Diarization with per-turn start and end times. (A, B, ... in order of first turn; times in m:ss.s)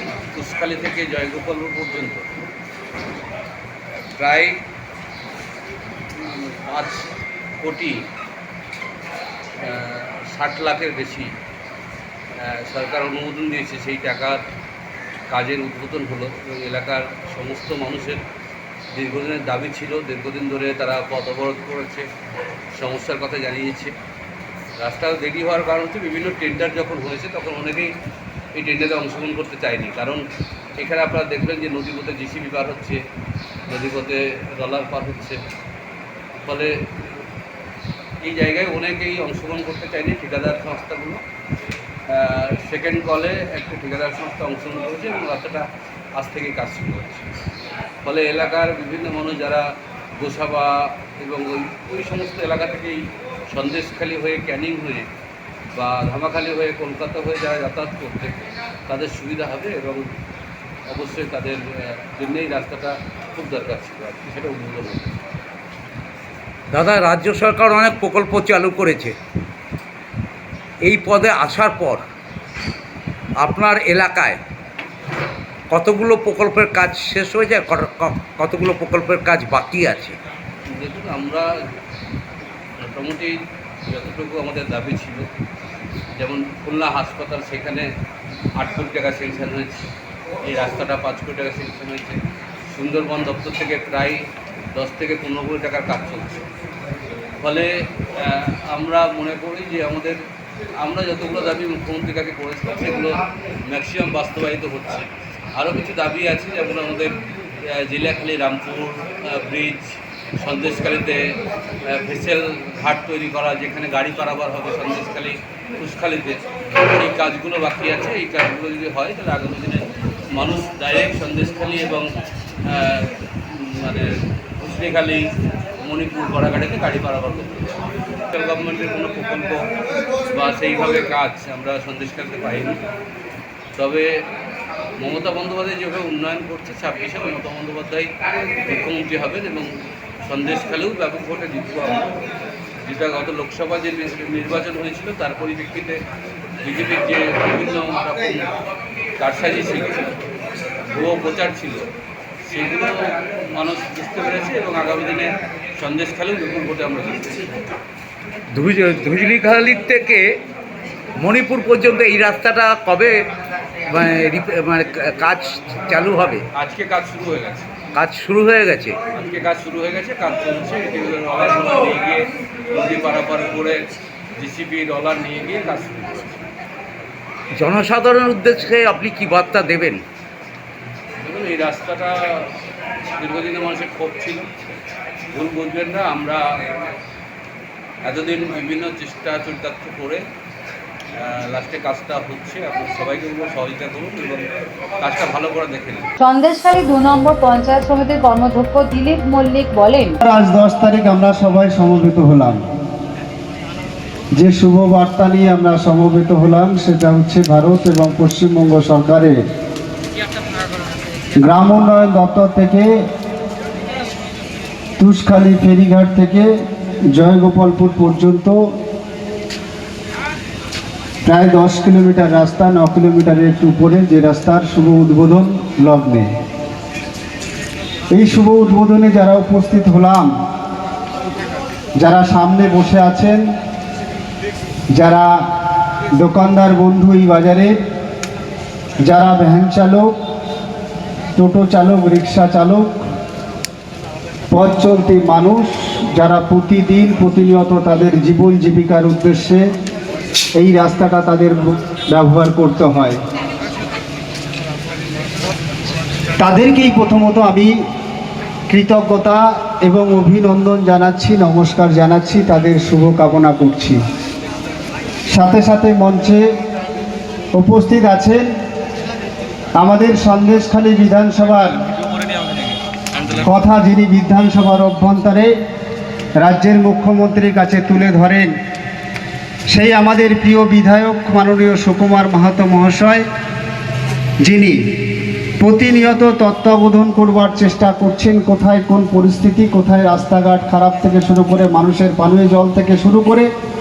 0:00.4-0:02.3 A
0:04.2-0:04.6 A
0:06.2-0:07.1 A
0:07.6-0:08.1 A
0:09.6-0:11.3 A
0:12.4-0:14.4 A
0:15.3-0:18.2 A
0:18.9-0:22.1 A
0:22.8-0:23.9 A
0:24.8-0:27.9 A
0:28.6-0:30.2 A
0:30.8-0:33.0 A
0:33.7-0:35.4 A
0:36.4-0:37.1 A
0:38.2-0:41.2 A
0:42.1-0:47.3 A
0:48.0-0:49.7 A
0:50.2-0:55.1 A
0:55.8-1:00.1 A
1:00.9-1:05.2 A
1:06.7-1:09.2 B
1:10.8-1:12.0 B
1:13.4-1:14.4 B
1:15.7-1:20.2 B
1:20.7-1:21.5 A
1:22.8-1:25.3 A
1:26.2-1:27.9 A
1:28.6-1:29.9 A
1:30.5-1:34.2 A
1:34.8-1:36.5 A
1:37.4-1:40.2 A
1:40.8-1:51.2 A
1:51.9-2:02.1 A
2:02.6-2:05.3 A
2:05.8-2:07.8 A
2:08.3-2:09.7 A
2:10.3-2:12.8 A
2:13.8-2:14.1 A
2:15.0-2:18.1 A
2:18.6-2:22.2 A
2:22.8-2:26.0 A
2:26.6-2:28.6 A
2:29.2-2:30.2 A
2:30.9-2:31.9 A
2:32.5-2:37.5 A
2:38.5-2:40.3 B
2:41.2-2:43.2 B
2:43.9-2:46.4 B
2:46.6-2:47.7 A
2:48.0-2:49.0 B
2:49.1-2:53.8 A
2:54.4-2:56.5 A
2:57.6-3:00.0 B
3:01.2-3:02.5 A
3:03.2-3:04.5 A
3:05.3-3:06.9 A
3:08.0-3:10.2 A
3:11.2-3:14.5 A
3:15.0-3:16.1 A
3:16.2-3:20.2 C
3:20.2-3:22.6 D
3:24.4-3:29.4 D
3:31.4-3:32.9 D
3:35.0-3:36.5 D
3:37.1-3:38.6 D
3:41.2-3:46.3 D
3:48.1-3:50.3 D
3:52.0-3:53.4 D
3:54.9-3:55.4 D
3:56.1-3:57.7 D
3:59.1-4:00.2 D
4:01.4-4:03.0 D
4:04.5-4:09.7 D
4:10.6-4:13.2 D
4:16.4-4:17.7 D
4:18.7-4:24.0 D
4:25.3-4:26.5 D
4:27.6-4:28.5 D
4:29.8-4:31.7 D
4:33.4-4:35.5 D
4:36.4-4:38.5 D
4:39.7-4:43.2 D
4:44.4-4:44.8 D
4:45.6-4:53.5 D